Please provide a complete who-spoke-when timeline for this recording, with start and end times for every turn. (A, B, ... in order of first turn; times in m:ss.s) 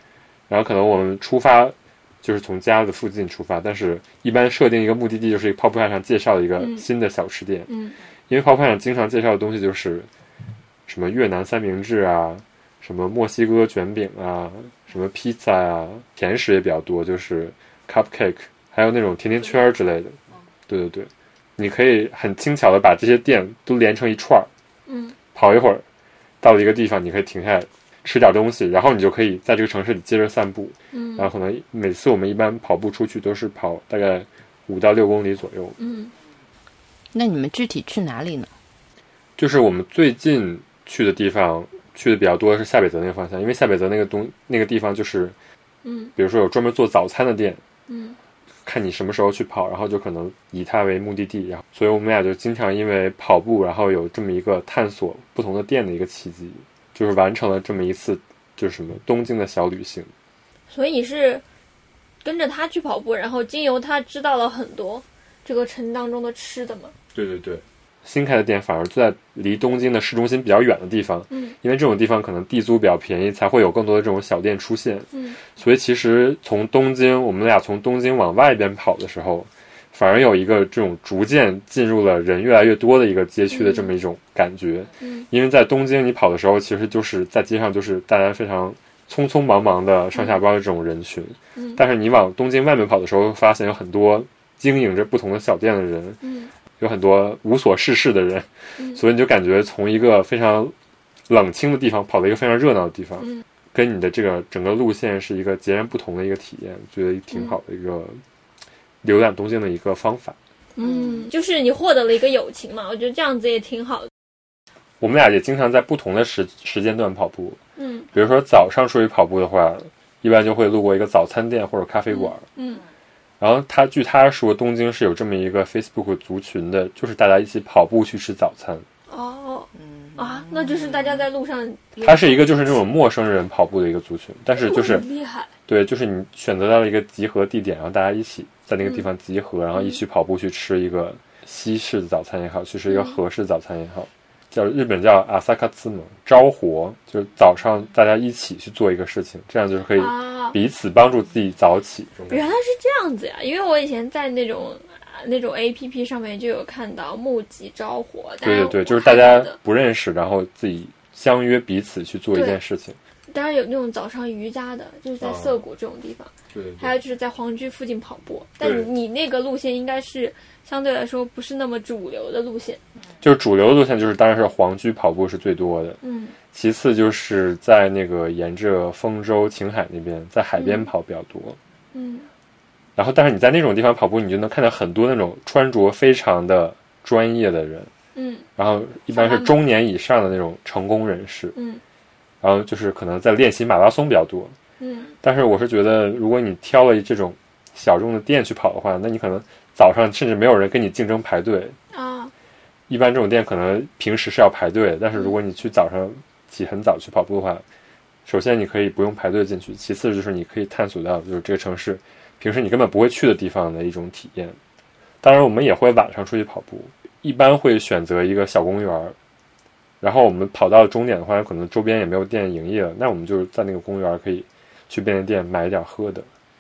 0:00.5-0:07.7 A
0:06.6-0:06.8 B
0:07.7-0:08.0 B
0:08.3-0:10.1 A
0:10.9-0:24.5 A
0:24.9-0:25.2 B
0:25.3-0:25.8 A
0:26.4-0:35.8 A
0:30.9-0:31.3 B
0:35.8-0:36.1 B
0:37.1-0:38.5 C
0:39.4-0:45.4 A
0:45.8-0:46.1 B
0:46.2-0:47.6 A
0:47.9-0:48.2 B
0:48.6-1:00.1 A
1:00.7-1:01.4 B
1:02.2-1:06.9 B
1:07.1-1:36.2 A
1:15.1-1:15.4 B
1:23.5-1:23.9 B
1:25.0-1:25.3 B
1:31.6-1:31.8 B
1:36.2-1:36.5 B
1:36.8-1:40.7 A
1:41.3-1:48.2 A
1:47.3-1:47.6 B
1:49.0-1:50.4 A
1:50.8-1:54.1 B
1:55.0-1:57.6 A
1:57.8-1:58.1 B
1:58.1-2:02.4 A
2:02.1-2:02.8 B
2:03.4-2:08.8 A
2:09.1-2:12.0 B
2:10.1-2:11.0 C
2:12.0-2:15.1 A
2:14.6-2:15.5 B
2:15.7-2:32.4 A
2:22.9-2:23.2 B
2:30.0-2:30.6 B
2:32.3-2:39.6 B
2:38.4-2:43.0 A
2:42.3-2:42.6 B
2:43.3-2:52.8 B
2:45.2-2:45.6 A
2:46.5-2:47.0 A
2:48.6-2:48.9 A
2:53.2-2:56.0 A
2:56.0-2:56.4 B
2:56.5-3:01.6 A
3:00.6-3:00.9 B
3:01.9-3:02.3 B
3:03.0-3:07.9 A
3:08.2-3:08.5 B
3:08.6-3:11.6 A
3:09.1-3:09.6 B
3:11.6-3:11.8 B
3:12.4-3:14.6 A
3:14.8-3:15.1 B
3:15.2-3:21.8 A
3:21.9-3:22.3 B
3:22.9-3:27.6 A
3:28.3-3:34.6 A
3:35.2-3:39.2 A
3:40.0-3:46.3 A